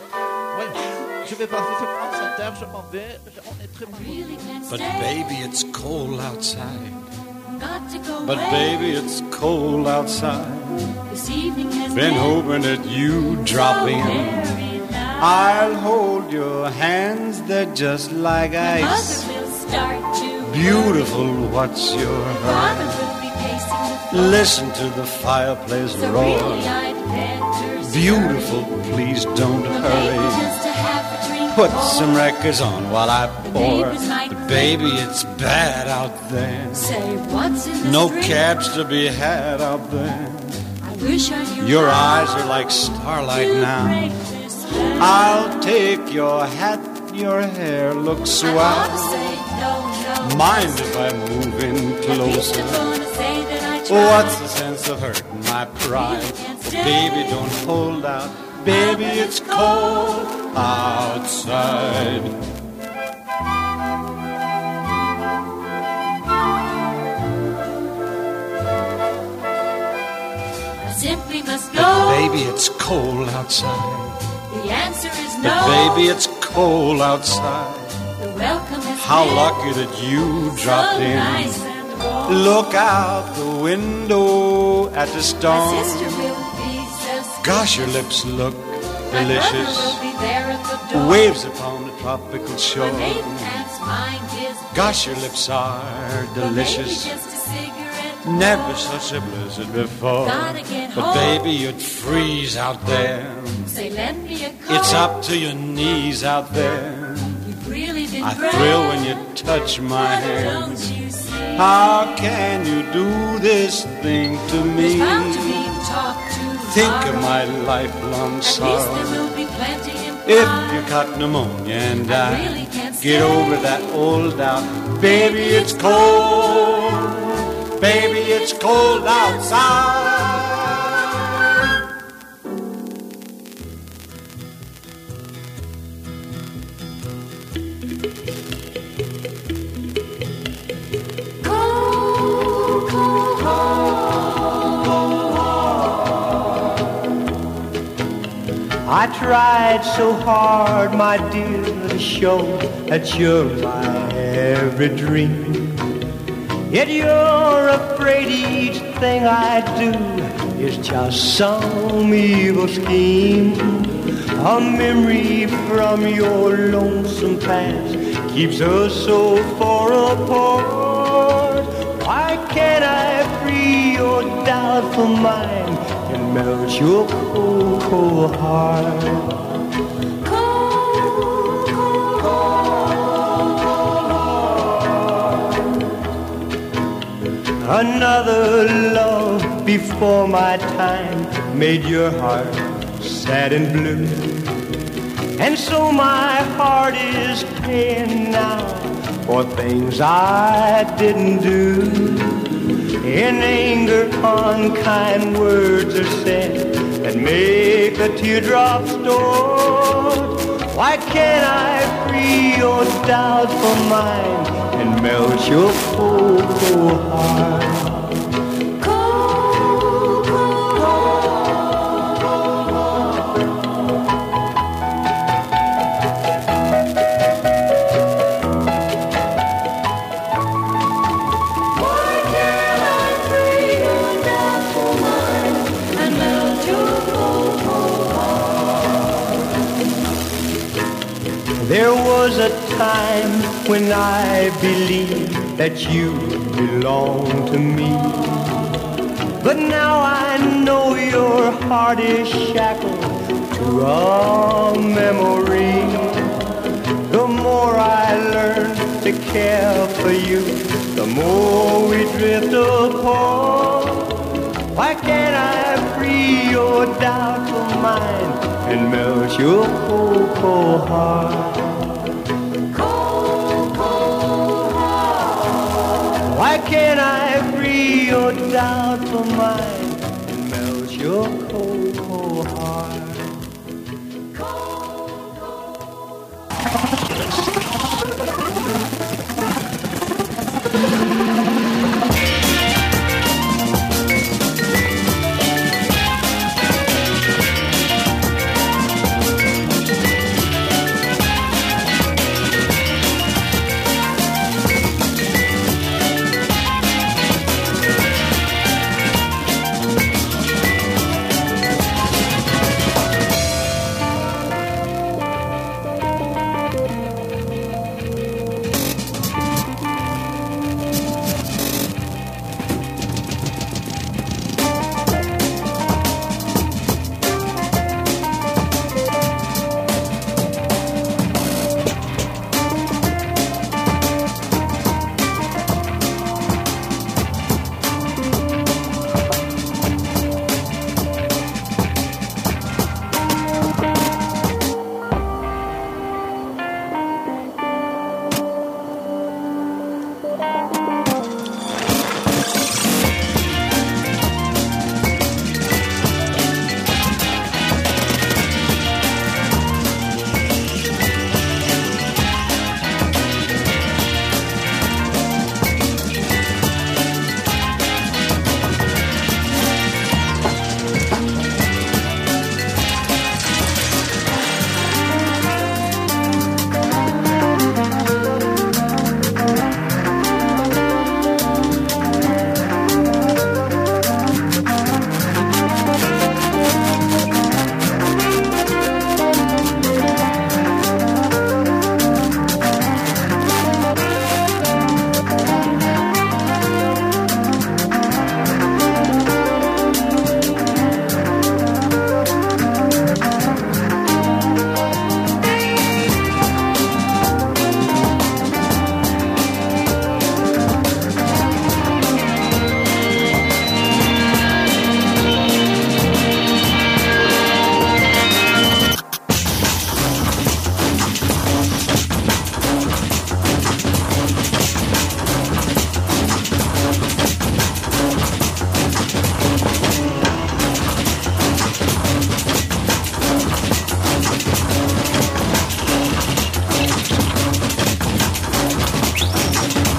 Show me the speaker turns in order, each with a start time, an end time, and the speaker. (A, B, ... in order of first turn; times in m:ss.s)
0:00.5-0:04.2 A
0:03.9-0:05.1 B
0:04.7-0:07.0 C
0:07.6-0:08.7 B
0:08.2-0:10.9 C
0:11.1-0:12.4 B
0:11.9-0:14.6 C
0:13.6-0:15.3 B
0:15.1-0:19.3 C
0:18.6-0:20.9 B
0:20.4-0:23.0 C
0:22.4-0:24.4 B
0:24.1-0:26.8 C
0:25.9-0:28.5 B
0:27.8-0:30.6 C
0:29.6-0:32.0 B
0:31.4-0:37.0 C
0:33.5-0:34.8 B
0:36.7-0:38.4 B
0:37.8-0:40.6 C
0:40.8-0:42.4 B
0:41.6-0:44.3 C
0:43.3-0:45.3 B
0:44.9-0:49.4 C
0:48.4-0:50.8 B
0:50.2-0:53.0 C
0:52.0-0:54.4 B
0:53.8-1:02.4 C
0:55.9-0:57.3 B
0:58.8-0:59.3 B
1:10.9-1:12.2 B
1:11.7-1:14.2 C
1:14.5-1:16.0 B
1:15.4-1:18.0 C
1:18.2-1:19.5 B
1:18.9-1:21.7 C
1:20.4-1:22.4 B
1:22.2-1:26.2 C
1:25.5-1:28.0 B
1:27.4-1:30.0 C
1:29.1-1:31.2 B
1:30.9-1:33.6 C
1:32.8-1:35.0 B
1:34.7-1:37.2 C
1:36.4-1:38.7 B
1:38.2-1:43.8 C
1:40.2-1:41.4 B
1:43.7-1:45.0 B
1:44.7-1:47.5 C
1:47.4-1:49.0 B
1:48.2-1:51.0 C
1:49.9-1:51.9 B
1:51.5-1:55.8 C
1:54.8-1:57.2 B
1:56.6-1:59.3 C
1:58.4-2:00.8 B
2:00.2-2:11.0 C
2:02.0-2:03.7 B
2:05.1-2:06.1 B
2:28.8-2:35.8 D
2:36.7-2:59.4 D
3:00.2-3:01.7 B
3:07.6-3:14.5 D
3:15.4-3:38.2 D
3:38.8-3:41.1 B
3:52.0-3:58.7 B
4:01.6-4:08.6 D
4:09.4-4:16.3 D
4:17.1-4:24.1 D
4:24.7-4:32.0 D
4:36.2-4:43.4 D